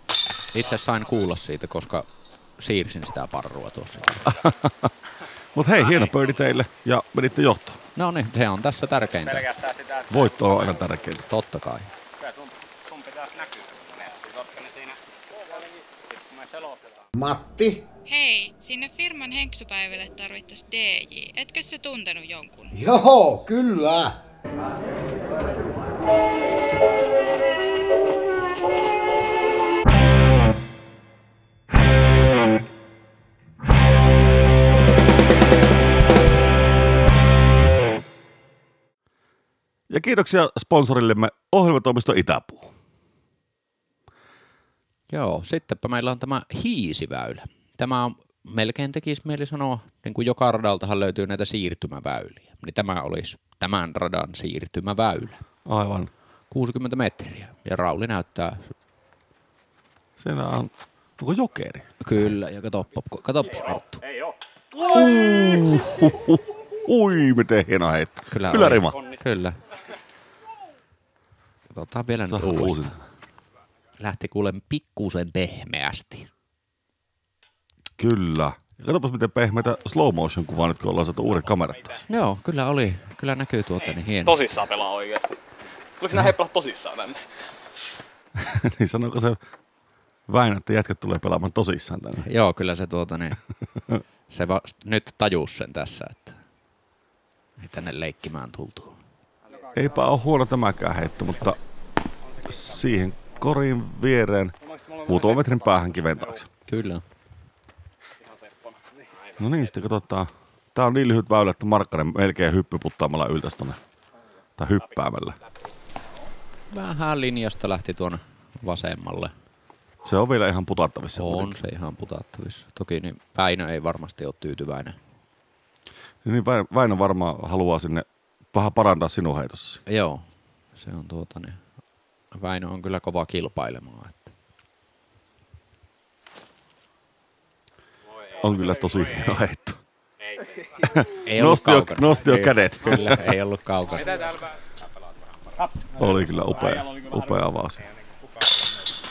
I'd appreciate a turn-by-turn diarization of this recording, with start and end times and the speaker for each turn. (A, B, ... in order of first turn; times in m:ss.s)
0:00.5-0:04.3 A
0:04.2-0:04.9 B
0:05.5-0:07.8 B
0:08.0-0:09.5 A
0:09.3-0:10.2 C
0:10.1-0:11.2 B
0:11.3-0:11.9 A
0:12.2-0:15.0 C
0:16.1-0:16.8 C
0:17.1-0:17.8 D
0:18.1-0:22.7 E
0:22.7-0:24.2 D
0:39.9-0:42.7 B
0:45.1-0:55.4 A
0:55.6-0:56.1 B
0:56.5-0:58.7 A
1:00.2-1:02.3 B
1:02.0-1:04.0 A
1:04.8-1:09.0 B
1:08.3-1:09.6 A
1:08.9-1:09.2 C
1:11.7-1:12.9 A
1:12.2-1:13.0 B
1:14.0-1:16.3 A
1:18.0-1:22.0 B
1:22.1-1:24.5 A
1:24.2-1:25.4 F
1:26.0-1:27.2 F
1:28.4-1:29.4 B
1:30.3-1:32.3 B
1:32.2-1:33.4 A
1:34.3-1:36.4 A
1:37.6-1:39.0 A
1:39.5-1:39.9 F
1:39.7-1:41.6 B
1:42.4-1:46.4 B
1:44.6-1:46.3 F
1:46.7-1:47.0 A
1:48.2-1:49.0 F
1:49.4-1:53.8 B
1:54.6-1:55.4 B
1:56.7-1:59.3 A
2:00.0-2:01.6 B
2:01.1-2:05.0 A
2:06.2-2:09.8 B
2:09.9-2:11.6 A
2:12.3-2:14.3 A
2:18.4-2:19.8 B
2:20.2-2:20.5 C
2:20.8-2:23.2 B
2:21.2-2:24.1 A
2:24.8-2:25.5 C
2:25.6-2:27.5 F
2:26.0-2:27.8 B
2:28.1-2:28.6 F